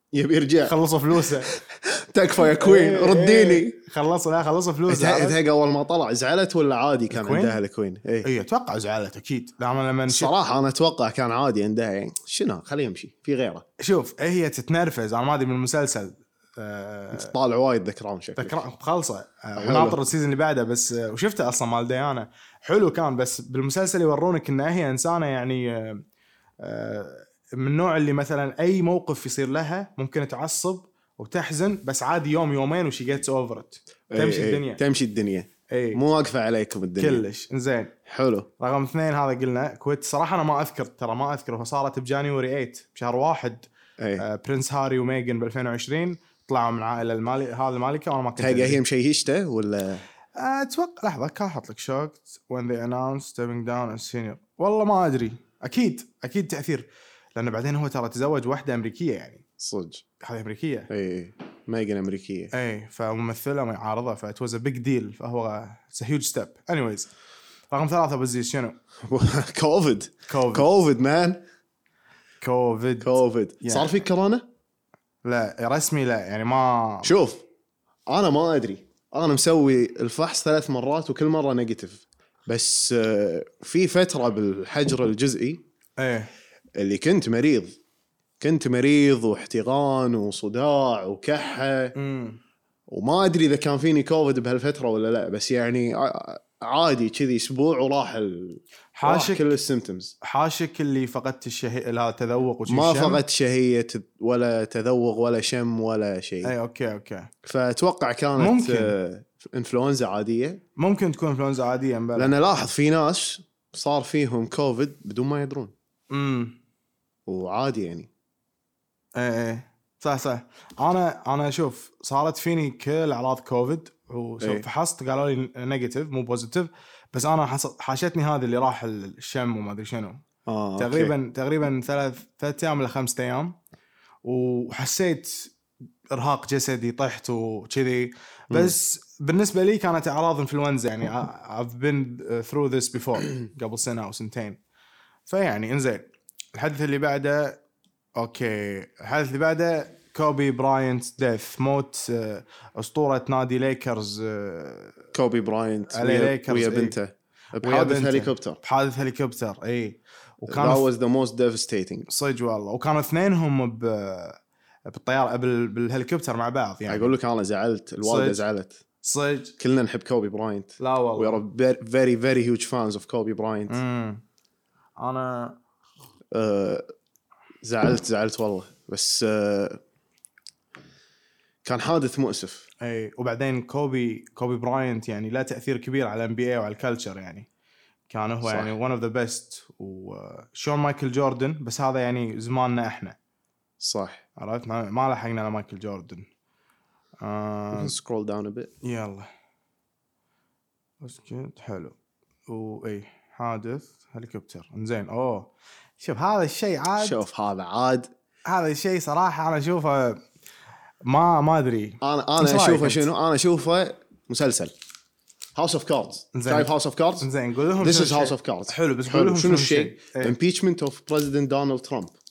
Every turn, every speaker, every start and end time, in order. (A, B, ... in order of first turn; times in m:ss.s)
0:00.1-0:00.8 A
0:00.6-0:01.5 B
0:01.4-0:03.8 A
0:02.4-0:05.4 B
0:04.9-0:08.3 A
0:07.1-0:07.6 B
0:08.2-0:10.3 B
0:10.1-0:13.6 A
0:13.8-0:17.3 B
0:17.1-0:18.6 A
0:18.4-0:26.0 B
0:19.6-0:20.0 A
0:26.6-0:34.8 B
0:34.1-0:37.2 A
0:35.7-0:36.0 B
0:37.0-0:37.9 B
0:38.1-0:38.5 A
0:38.6-0:43.7 B
0:44.0-0:44.2 A
0:44.2-0:48.8 B
0:48.4-0:50.0 A
0:50.4-0:59.4 B
0:59.6-1:00.0 A
1:00.2-1:00.9 B
1:00.9-1:02.5 A
1:02.5-1:07.1 B
1:07.7-1:08.8 B
1:09.0-1:11.4 A
1:10.3-1:10.7 B
1:12.4-1:13.9 B
1:13.0-1:14.4 A
1:15.2-1:17.1 B
1:17.0-1:17.4 A
1:18.1-1:25.6 A
1:26.0-1:26.3 B
1:26.7-1:27.8 A
1:28.4-1:31.9 A
1:32.0-1:32.4 B
1:32.9-1:40.1 A
1:38.9-1:39.5 B
1:40.2-1:43.2 B
1:42.7-1:46.5 A
1:46.4-1:47.3 B
1:47.4-1:50.6 A
1:48.4-1:48.9 B
1:50.8-1:52.3 B
1:52.2-1:55.7 A
1:56.1-1:56.6 B
1:57.3-1:58.1 A
1:59.1-2:10.2 B
2:10.5-2:11.1 A
2:10.8-2:13.6 B
2:14.2-2:15.5 B
2:16.1-2:24.6 B
2:25.3-2:27.6 B
2:28.2-2:35.0 B
2:35.1-2:38.6 A
2:35.9-2:37.0 B
2:37.6-2:40.8 B
2:40.5-2:42.1 A
2:42.1-2:47.1 B
2:46.9-2:48.8 A
2:48.0-2:48.4 B
2:49.0-2:49.5 B
2:49.6-2:53.8 A
2:50.8-2:51.4 B
2:53.7-2:54.2 B
2:55.0-2:55.6 B
2:56.3-2:56.8 A
2:57.6-2:59.8 A
3:01.6-3:02.7 A
3:02.8-3:07.5 B
3:08.1-3:13.2 B
3:08.4-3:08.7 A
3:13.8-3:14.2 A
3:14.4-3:16.3 B
3:17.2-3:17.9 B
3:17.7-3:18.7 A
3:18.8-3:19.3 B
3:21.0-3:21.9 B
3:22.5-3:27.2 B
3:27.0-3:28.1 A
3:28.4-3:30.2 B
3:31.0-3:33.1 B
3:32.0-3:34.7 A
3:35.5-3:37.3 A
3:36.3-3:40.4 B
3:37.8-3:42.1 A